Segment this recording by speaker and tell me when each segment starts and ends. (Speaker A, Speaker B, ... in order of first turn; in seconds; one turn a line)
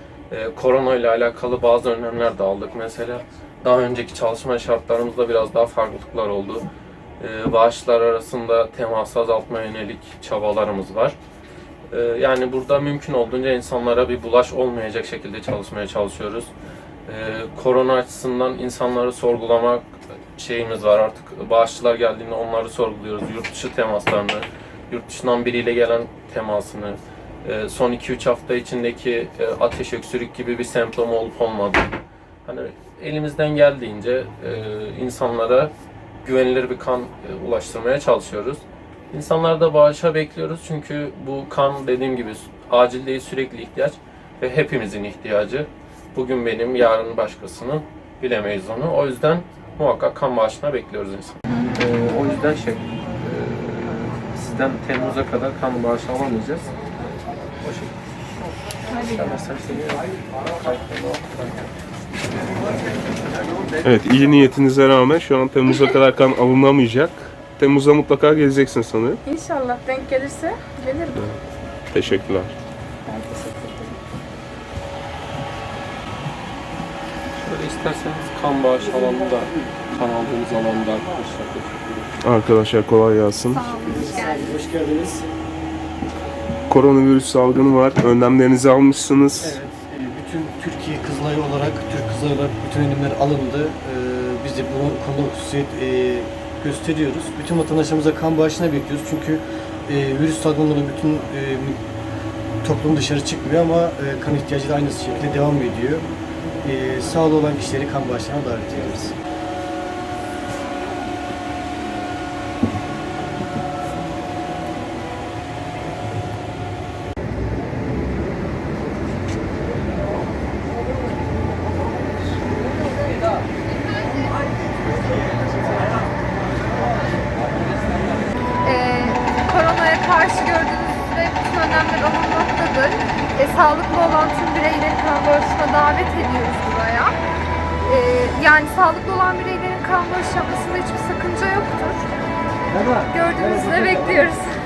Speaker A: 0.3-6.7
Speaker A: 7.2-11.2
Speaker A: 11.9-16.5
Speaker A: 17.1-31.9
Speaker A: 32.5-35.7
Speaker A: 36.2-56.7
Speaker A: 57.6-58.0
Speaker A: 59.0-61.6
Speaker B: 63.8-69.2
Speaker C: 69.3-71.3
Speaker B: 71.9-72.5
Speaker C: 73.1-74.0
Speaker A: 77.4-82.1
Speaker B: 82.2-83.7
Speaker D: 83.5-84.6
Speaker E: 83.8-85.3
Speaker B: 86.7-89.6
Speaker E: 89.4-101.8
Speaker E: 102.6-106.1
Speaker E: 106.6-109.2
Speaker D: 123.7-124.5
Speaker D: 128.6-137.1
Speaker D: 137.8-142.0
Speaker E: 142.7-143.9
Speaker D: 143.1-144.5